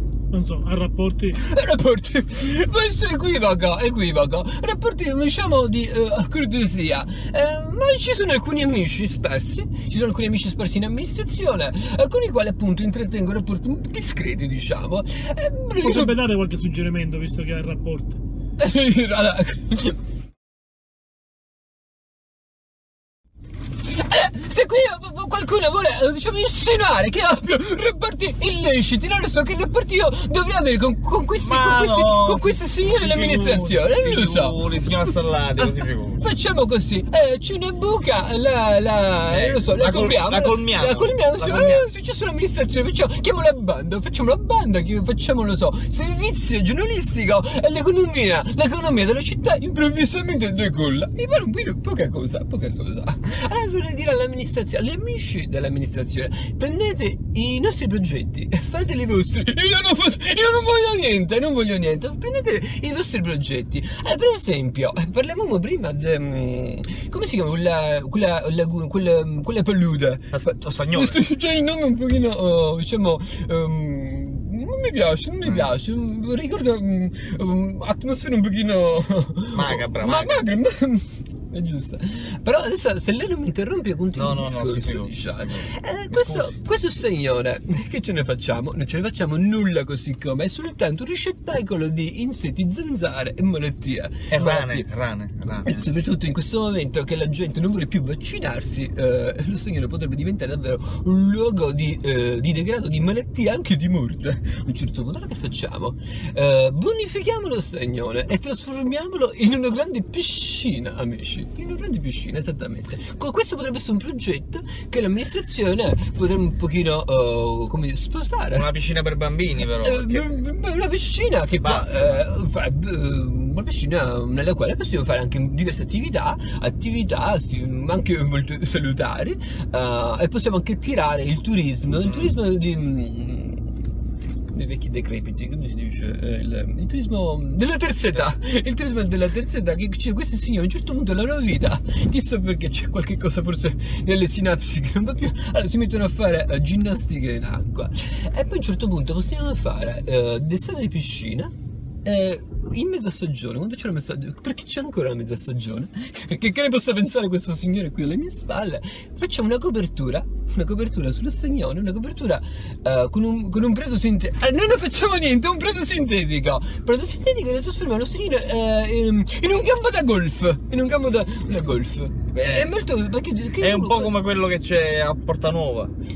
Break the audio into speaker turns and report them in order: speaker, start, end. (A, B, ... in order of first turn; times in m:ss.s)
0:00.3-0:01.4 A
0:01.3-0:16.2 B
0:15.8-0:18.2 A
0:18.6-0:20.0 B
0:23.9-0:34.6 B
0:31.4-0:36.2 C
0:35.6-1:34.9 B
0:39.3-0:41.9 C
1:10.3-1:11.2 C
1:15.4-1:15.7 C
1:19.5-1:20.5 C
1:24.1-1:26.5 C
1:34.3-1:35.9 C
1:35.6-1:58.7 B
1:58.5-2:00.3 C
1:59.8-2:13.7 B
2:01.6-2:02.3 C
2:12.0-2:12.3 C
2:14.5-2:31.5 B
2:32.0-2:54.1 B
2:52.4-2:52.7 C
2:53.6-2:55.9 C